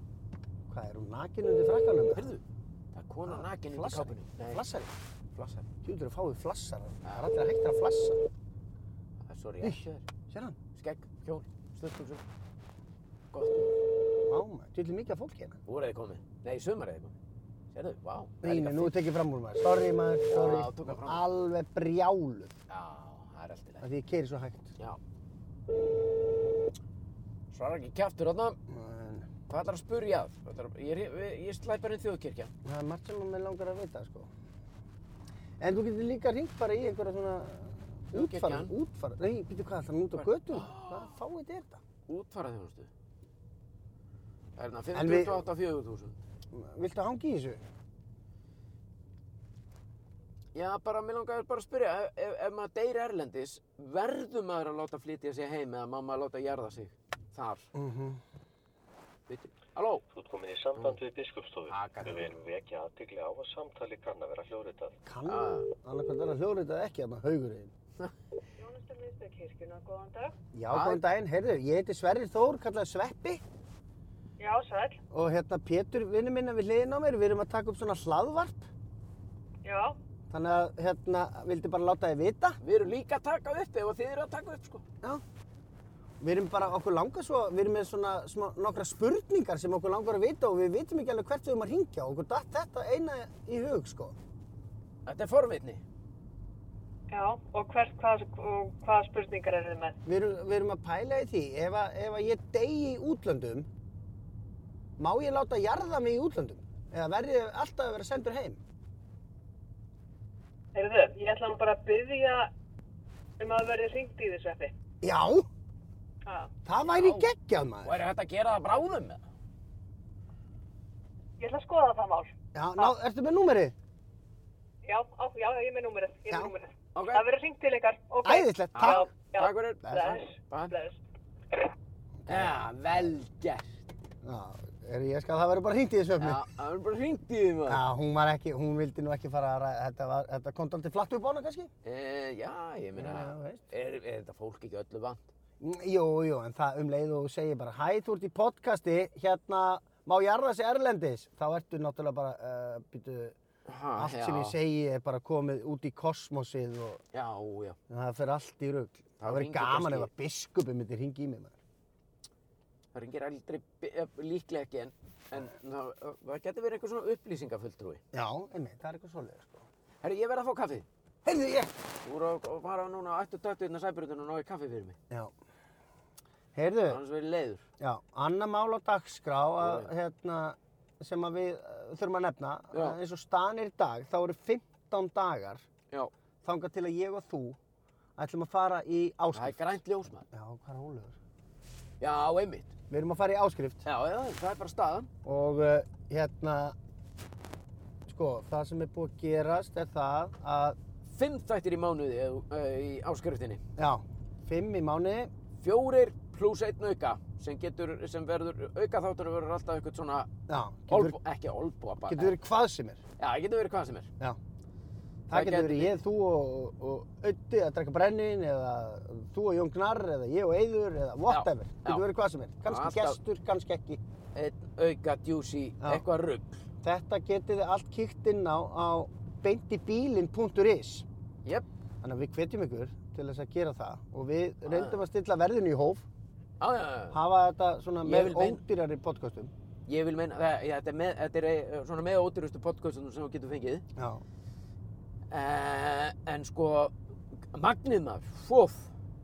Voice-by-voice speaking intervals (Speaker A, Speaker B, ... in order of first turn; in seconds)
Speaker A: 0.7-2.3, 3.2-4.9, 5.8-8.2, 9.6-10.6, 14.2-15.6, 18.4-22.5, 23.8-24.7, 28.7-29.3, 32.6-34.3, 35.6-41.8, 44.9-45.5, 46.5-47.6, 57.8-58.2, 65.0-67.7, 70.5-73.4, 75.1-78.7, 80.3-82.6, 86.2-94.2, 100.1-103.7, 105.0-108.6, 115.0-115.5, 116.6-118.0, 122.5-123.7, 128.2-129.1, 129.8-130.2, 132.2-133.1, 134.2-136.4, 137.7-141.7, 143.0-143.6, 145.6-153.3, 154.0-157.0, 157.9-161.6, 168.1-169.7, 171.2-171.7, 176.5-177.0, 177.8-185.7, 186.4-187.6, 188.2-189.8, 190.3-191.2, 192.9-193.8, 195.2-196.8, 198.1-200.8, 203.8-205.3, 210.5-211.2, 212.1-213.0, 215.3-224.0, 226.8-231.1, 232.0-236.1, 237.1-239.5, 244.0-244.2
Speaker B: 2.1-2.4, 2.9-4.6, 5.3-5.7, 9.3-10.1, 10.8-12.2, 13.3-13.8, 15.7-17.1, 17.7-19.0, 20.3-21.2, 22.7-23.9, 27.5-28.6, 29.5-32.5, 38.1-38.7, 40.1-41.1, 42.1-42.9, 44.6-46.2, 50.5-57.7, 59.3-60.0, 61.7-62.4, 65.3-65.7, 70.7-71.0, 82.6-84.8, 95.1-95.8, 116.8-117.3, 117.8-119.2, 127.0-127.2, 128.7-130.7, 132.3-133.9, 136.2-137.8, 141.8-145.3, 153.7-154.6, 157.1-157.8, 159.2-160.1, 162.9-168.0, 170.0-170.9, 172.1-175.0, 176.9-177.6, 179.6-179.9, 182.7-183.0, 189.3-190.2, 192.0-192.7, 193.8-195.1, 201.1-203.6, 205.6-210.3, 210.9-212.3, 213.2-214.1, 215.3-216.0, 221.3-222.0, 222.6-223.2, 224.3-226.6, 234.7-235.0, 236.6-237.2, 238.0-238.6, 239.9-243.8, 245.3-246.9, 247.5-248.9
Speaker C: 60.1-65.0
Speaker D: 68.6-70.3, 74.4-75.0, 79.6-80.0, 97.1-100.0, 110.7-112.5, 113.4-114.7, 116.2-116.5, 121.4-122.9, 124.8-131.0